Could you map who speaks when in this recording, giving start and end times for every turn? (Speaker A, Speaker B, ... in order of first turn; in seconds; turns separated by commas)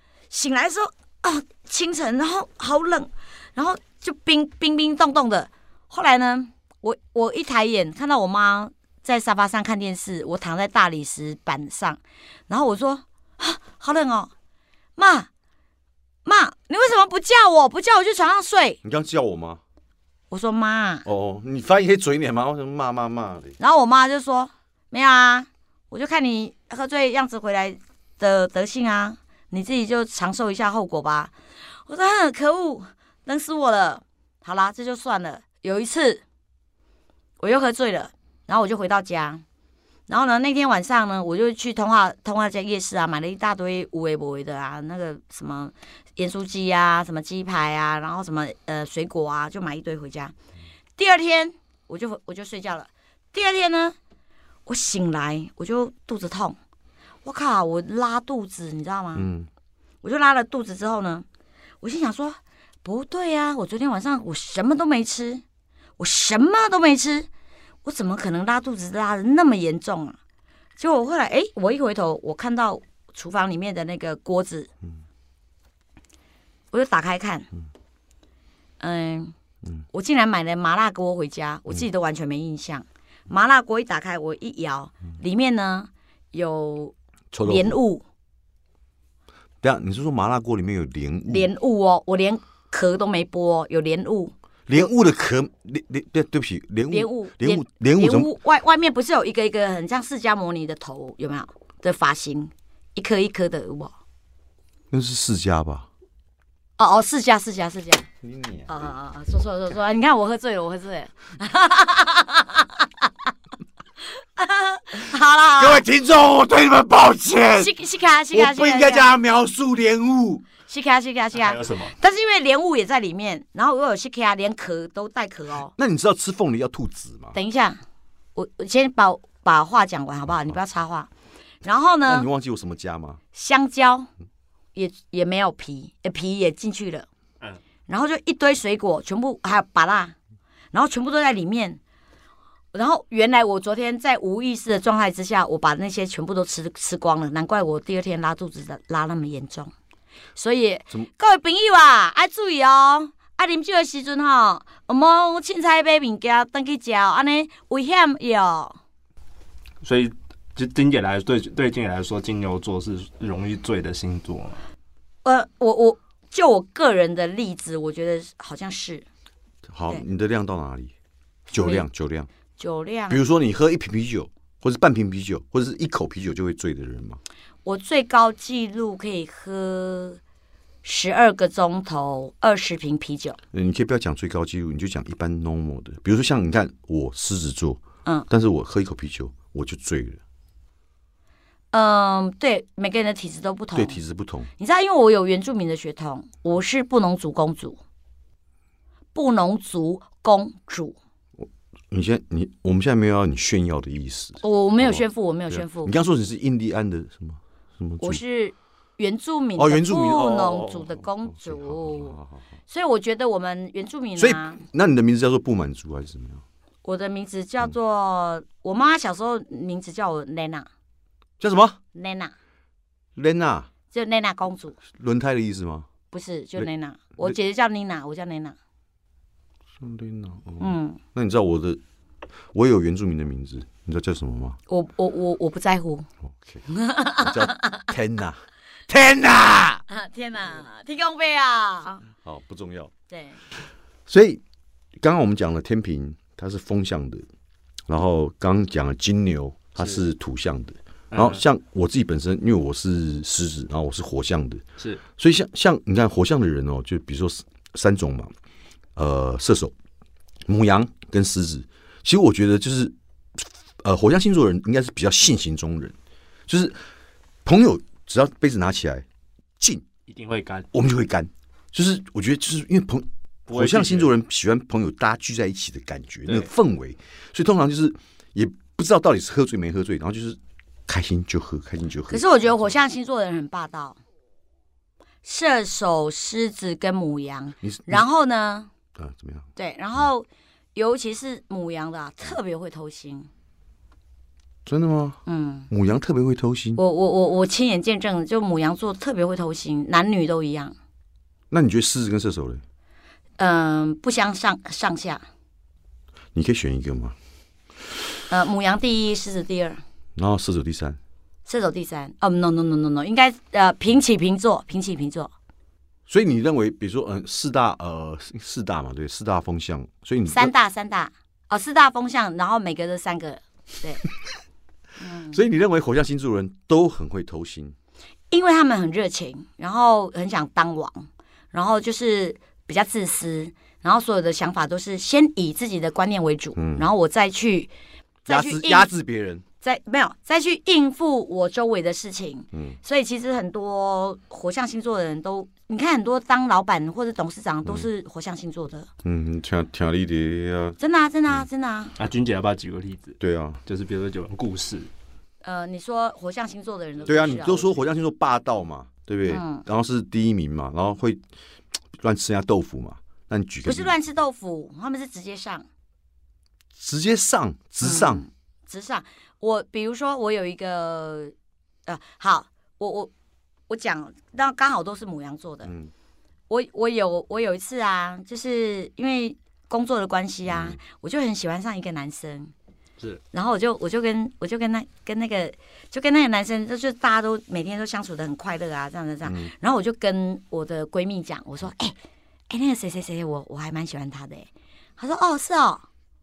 Speaker A: 0.3-14.3, Speaker A: 15.0-15.3, Speaker A: 16.2-18.8, Speaker B: 18.8-19.6, Speaker A: 20.3-21.1, Speaker B: 21.1-23.5, Speaker A: 23.6-31.3, Speaker A: 31.9-36.2, Speaker A: 37.4-39.4, Speaker A: 40.1-50.3, Speaker A: 51.0-54.0, Speaker A: 54.6-56.6, Speaker A: 57.2-59.3, Speaker B: 59.1-59.5, Speaker A: 60.0-61.2, Speaker A: 61.8-65.4, Speaker A: 66.0-67.3, Speaker A: 67.8-70.2, Speaker A: 70.8-74.7, Speaker A: 76.7-77.5, Speaker A: 78.8-79.3, Speaker A: 79.9-88.0, Speaker B: 87.3-87.8, Speaker B: 89.6-91.5, Speaker A: 91.3-94.3, Speaker B: 94.7-98.3, Speaker A: 96.9-103.9, Speaker B: 104.9-105.9, Speaker A: 106.8-108.1, Speaker B: 108.2-108.9, Speaker A: 108.7-113.1, Speaker A: 114.2-115.8, Speaker B: 115.6-117.7, Speaker A: 117.5-119.1, Speaker B: 118.3-120.4, Speaker A: 120.7-125.7, Speaker C: 121.3-121.9, Speaker B: 125.8-127.3, Speaker A: 127.3-127.8, Speaker A: 128.3-131.1, Speaker A: 131.6-132.3, Speaker B: 132.1-133.2, Speaker A: 133.3-134.1, Speaker A: 134.7-137.1, Speaker A: 137.9-140.2, Speaker A: 140.7-141.8, Speaker A: 142.7-149.7, Speaker A: 150.3-158.8, Speaker C: 159.8-164.6, Speaker A: 165.2-169.1, Speaker B: 169.7-170.9, Speaker A: 171.5-171.8, Speaker B: 171.5-172.3, Speaker A: 172.6-173.2, Speaker B: 173.1-177.2, Speaker A: 177.6-180.2, Speaker A: 180.8-183.4, Speaker B: 183.5-190.2, Speaker A: 191.7-194.0, Speaker B: 193.7-194.5, Speaker A: 194.6-197.8, Speaker A: 199.1-201.0, Speaker B: 201.4-208.2, Speaker A: 204.4-205.9, Speaker A: 208.0-212.2, Speaker B: 209.6-212.4, Speaker A: 212.7-214.6, Speaker B: 214.2-216.4, Speaker A: 216.8-220.7, Speaker B: 221.4-221.8, Speaker A: 221.9-222.3, Speaker B: 223.2-223.7, Speaker A: 223.9-224.8, Speaker B: 224.9-225.9, Speaker A: 226.1-228.6, Speaker B: 229.8-231.8, Speaker A: 230.6-231.0, Speaker B: 232.5-234.6, Speaker A: 234.7-236.1, Speaker B: 236.3-236.6, Speaker A: 236.7-237.8, Speaker B: 237.2-239.8, Speaker A: 239.9-242.0, Speaker B: 242.2-242.9, Speaker A: 243.1-243.4, Speaker B: 244.1-244.4, Speaker B: 245.0-247.2, Speaker B: 247.9-254.6, Speaker C: 251.1-251.4, Speaker B: 255.2-258.3, Speaker B: 258.9-259.7, Speaker B: 260.5-265.9, Speaker B: 266.5-266.8, Speaker B: 267.4-269.1, Speaker B: 269.6-269.8, Speaker C: 270.1-270.7, Speaker B: 270.7-282.6, Speaker C: 273.5-274.1, Speaker A: 282.1-284.0, Speaker A: 285.2-288.7, Speaker B: 287.6-288.0, Speaker B: 288.9-289.5, Speaker A: 289.6-293.3, Speaker B: 294.6-295.2, Speaker A: 295.2-295.7, Speaker B: 295.7-296.8, Speaker A: 296.8-300.7, Speaker B: 301.5-302.6, Speaker A: 303.4-305.2, Speaker B: 306.3-307.1, Speaker A: 308.3-309.8, Speaker B: 310.1-311.0, Speaker A: 311.5-315.3, Speaker B: 316.1-320.5, Speaker A: 320.3-324.0, Speaker A: 325.0-325.4, Speaker B: 325.3-327.7, Speaker A: 328.3-337.7, Speaker B: 336.6-336.9, Speaker A: 338.3-338.9, Speaker B: 338.3-339.4, Speaker A: 339.6-348.9, Speaker B: 342.5-342.8, Speaker B: 349.0-350.8, Speaker A: 350.8-351.9, Speaker C: 351.9-354.9, Speaker B: 353.2-353.6, Speaker A: 355.4-357.7, Speaker B: 357.1-361.2, Speaker A: 359.3-359.6, Speaker B: 361.9-363.9, Speaker A: 363.6-365.6, Speaker B: 366.8-368.2, Speaker A: 367.8-371.3, Speaker A: 371.9-373.1, Speaker A: 373.7-375.7, Speaker B: 375.6-375.9, Speaker A: 376.5-382.5, Speaker B: 380.4-380.8, Speaker A: 383.3-391.9, Speaker B: 389.2-389.5, Speaker A: 392.5-395.8